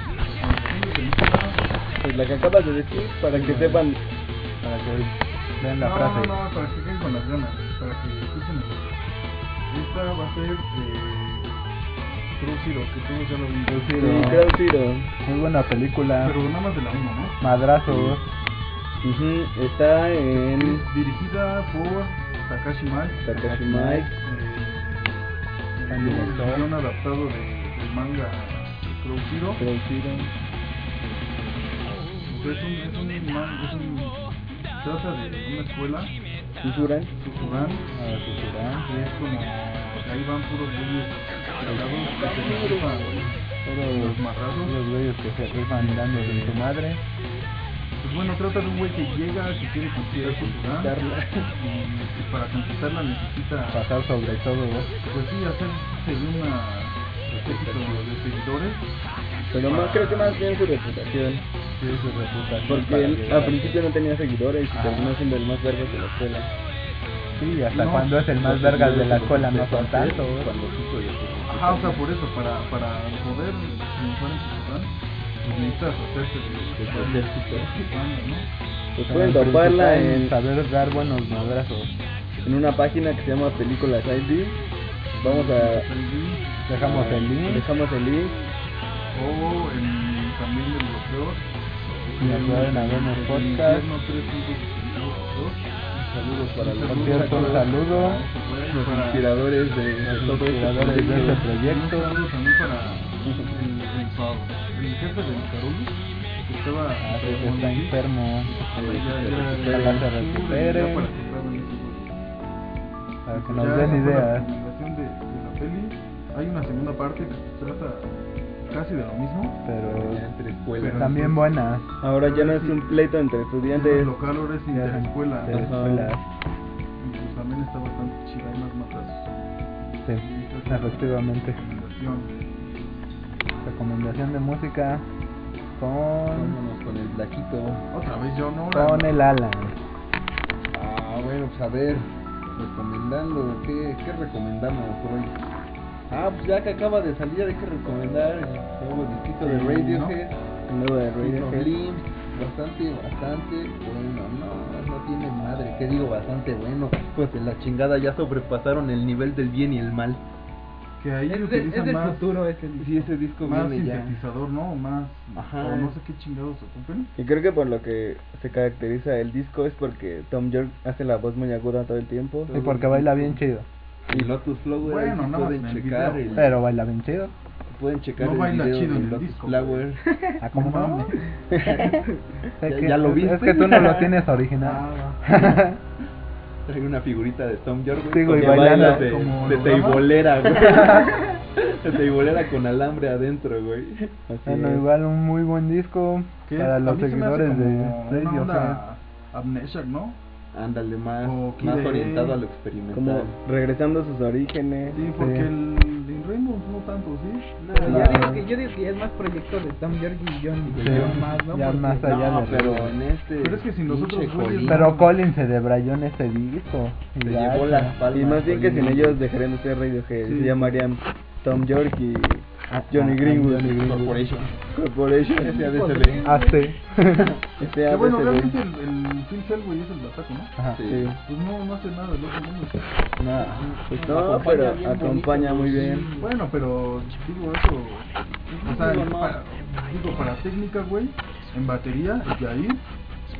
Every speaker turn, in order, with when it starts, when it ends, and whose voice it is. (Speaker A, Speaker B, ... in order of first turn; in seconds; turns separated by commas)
Speaker A: 0.3-1.6, Speaker B: 2.0-4.0, Speaker C: 3.3-3.8, Speaker C: 4.6-6.4, Speaker A: 5.8-8.9, Speaker A: 9.7-11.6, Speaker A: 12.3-14.4, Speaker C: 13.7-14.5, Speaker B: 13.9-15.1, Speaker C: 15.2-16.4, Speaker A: 16.2-17.4, Speaker C: 17.4-18.3, Speaker B: 17.9-18.2, Speaker B: 19.0-20.8, Speaker A: 20.3-23.3, Speaker B: 23.2-24.1, Speaker C: 23.3-24.1, Speaker A: 24.1-25.2, Speaker A: 25.8-29.6, Speaker C: 25.9-26.7, Speaker B: 29.6-30.3, Speaker A: 32.2-34.2, Speaker A: 34.8-36.1, Speaker B: 36.6-37.1, Speaker A: 37.1-37.9, Speaker C: 37.9-38.9, Speaker A: 38.9-44.8, Speaker D: 41.7-43.4, Speaker C: 43.7-47.0, Speaker A: 45.7-46.6, Speaker A: 48.0-50.9, Speaker D: 50.1-51.2, Speaker B: 50.9-51.2, Speaker A: 51.6-53.9, Speaker C: 53.7-54.9, Speaker A: 55.1-58.9, Speaker D: 57.3-58.1, Speaker B: 59.5-61.5, Speaker A: 59.6-60.4, Speaker C: 61.8-63.8, Speaker B: 62.6-66.5, Speaker C: 64.8-65.0, Speaker C: 67.4-70.5, Speaker A: 67.7-68.2, Speaker D: 68.4-72.0, Speaker A: 71.5-78.5, Speaker D: 76.8-77.9, Speaker B: 79.0-80.3, Speaker C: 79.0-81.9, Speaker B: 82.4-84.6, Speaker A: 85.2-86.5, Speaker B: 85.2-85.9, Speaker C: 86.7-87.7, Speaker B: 86.8-88.4, Speaker A: 89.1-95.7, Speaker C: 92.2-93.9, Speaker D: 95.9-97.8, Speaker A: 96.5-99.3, Speaker C: 96.9-98.2, Speaker D: 98.7-101.5, Speaker C: 100.0-102.2, Speaker A: 100.8-112.2, Speaker B: 103.2-103.5, Speaker C: 107.0-108.5, Speaker D: 108.7-110.1, Speaker C: 109.6-111.1, Speaker C: 113.2-114.5, Speaker A: 113.3-118.1, Speaker D: 113.7-114.0, Speaker A: 118.7-119.6, Speaker C: 119.6-120.2, Speaker D: 119.8-121.2, Speaker A: 120.8-121.5, Speaker C: 120.9-121.9, Speaker B: 122.0-124.1, Speaker A: 122.2-122.9, Speaker A: 123.7-125.8, Speaker C: 124.7-126.2, Speaker B: 125.5-126.1, Speaker A: 127.0-129.3, Speaker C: 130.0-131.6, Speaker A: 130.1-132.4, Speaker C: 133.6-135.0, Speaker C: 135.8-136.6, Speaker D: 136.3-137.8, Speaker A: 137.9-139.1, Speaker C: 138.7-139.8, Speaker D: 140.7-145.4, Speaker D: 146.1-150.3, Speaker A: 149.4-150.2, Speaker B: 150.7-151.7, Speaker D: 151.2-160.2, Speaker A: 161.0-162.4, Speaker E: 161.3-163.1, Speaker D: 162.8-164.2, Speaker A: 163.4-167.1, Speaker D: 165.3-165.9, Speaker B: 167.2-172.5, Speaker D: 172.5-173.4, Speaker C: 172.5-173.7, Speaker D: 174.1-176.5, Speaker A: 174.8-176.5, Speaker C: 176.4-177.3, Speaker D: 177.7-180.0, Speaker A: 178.2-179.9, Speaker E: 180.0-180.4, Speaker C: 180.4-181.1, Speaker A: 180.5-181.3, Speaker B: 181.5-182.0, Speaker C: 182.6-185.8, Speaker D: 182.6-184.1, Speaker A: 184.6-185.2, Speaker D: 186.7-194.1, Speaker C: 188.1-189.0, Speaker B: 188.3-188.9, Speaker A: 188.4-190.3, Speaker C: 190.6-191.1, Speaker B: 194.3-194.8, Speaker C: 194.4-198.8, Speaker A: 196.4-200.2, Speaker D: 200.5-203.3, Speaker A: 201.2-202.4, Speaker B: 202.9-205.0, Speaker A: 204.9-208.2, Speaker C: 205.2-205.5, Speaker D: 207.6-208.3, Speaker E: 207.7-212.2, Speaker C: 207.8-208.4, Speaker D: 210.6-211.3, Speaker C: 210.8-212.9, Speaker D: 212.0-214.9, Speaker A: 213.4-215.2, Speaker C: 214.6-217.9, Speaker D: 217.2-219.2, Speaker B: 218.1-223.8, Speaker A: 220.2-220.8, Speaker C: 222.7-224.2, Speaker D: 223.7-224.5, Speaker B: 224.7-225.6, Speaker D: 225.4-226.2, Speaker E: 225.4-226.7, Speaker C: 226.2-227.3, Speaker B: 227.6-228.6, Speaker A: 227.8-230.5, Speaker D: 230.7-231.1, Speaker B: 230.8-231.2, Speaker A: 231.2-232.9, Speaker C: 233.2-233.7, Speaker D: 233.4-236.3, Speaker B: 233.9-236.1, Speaker A: 235.8-238.1, Speaker D: 238.5-239.4, Speaker A: 238.6-242.8